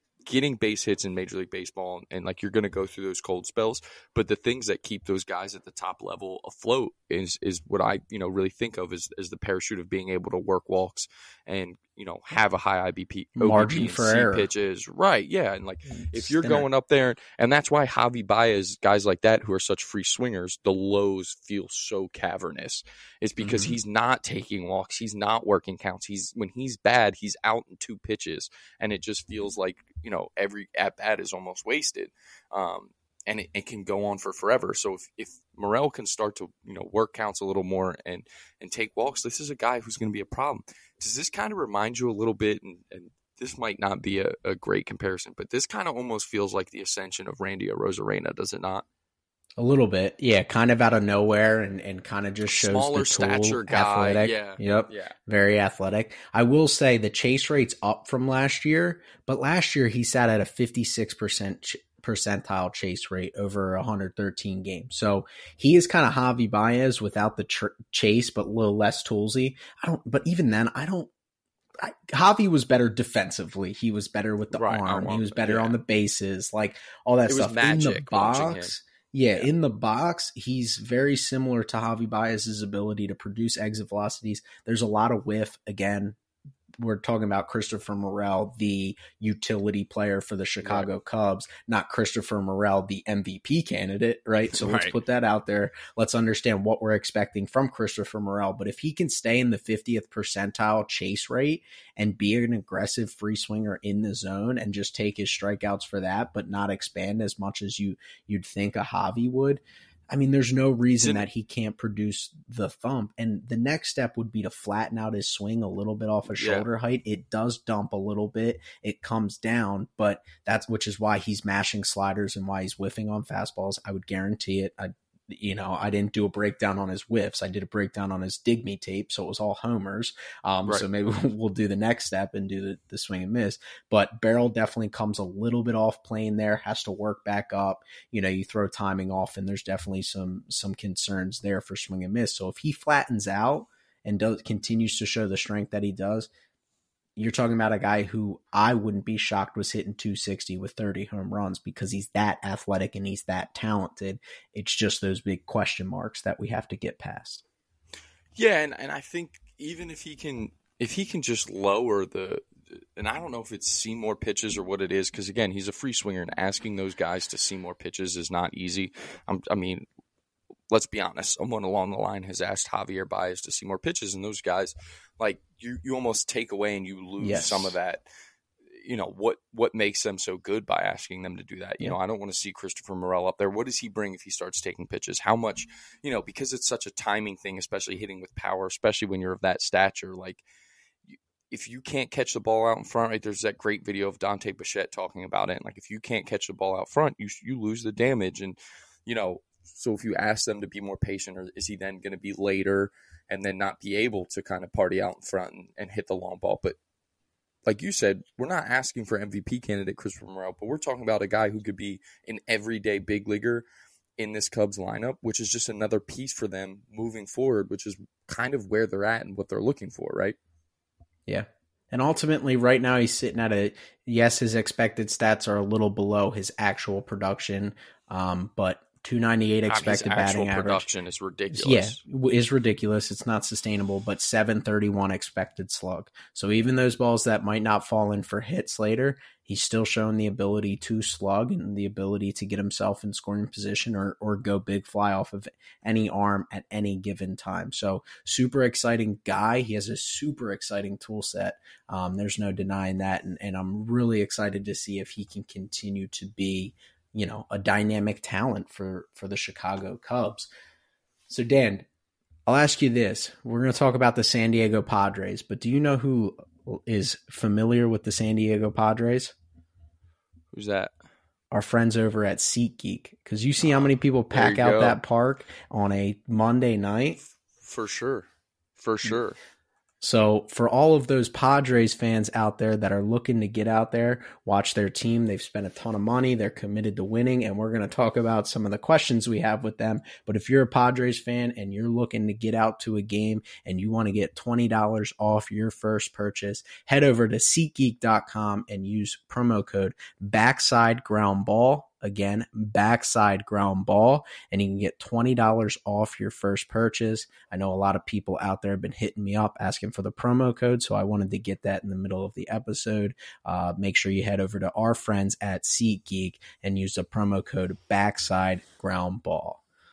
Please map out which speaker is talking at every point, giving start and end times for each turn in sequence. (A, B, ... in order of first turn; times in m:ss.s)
0:00.2-0:48.8 A
0:13.4-0:14.5 B
0:15.9-0:16.6 B
0:23.4-0:23.7 B
0:49.6-1:11.1 B
0:52.5-0:55.1 A
1:11.8-1:26.2 B
1:14.5-1:15.8 A
1:17.3-1:18.7 A
1:26.8-2:26.3 B
1:30.6-1:30.9 A
1:34.5-1:34.9 A
1:51.0-1:51.2 A
1:56.3-1:56.6 A
2:27.2-2:37.4 B
2:38.3-2:49.8 A
2:50.7-2:58.0 A
2:57.2-2:57.8 B
2:58.7-3:10.4 A
3:11.1-3:26.8 A
3:27.6-3:33.6 A
3:34.2-3:40.4 A
3:41.3-3:50.8 B
3:49.7-3:52.0 A
3:51.5-4:20.5 B
4:21.3-4:21.8 B
4:22.5-4:29.3 B
4:30.5-4:30.9 A
4:31.5-4:37.2 B
4:33.6-4:35.0 A
4:37.4-4:39.4 A
4:40.0-5:19.6 B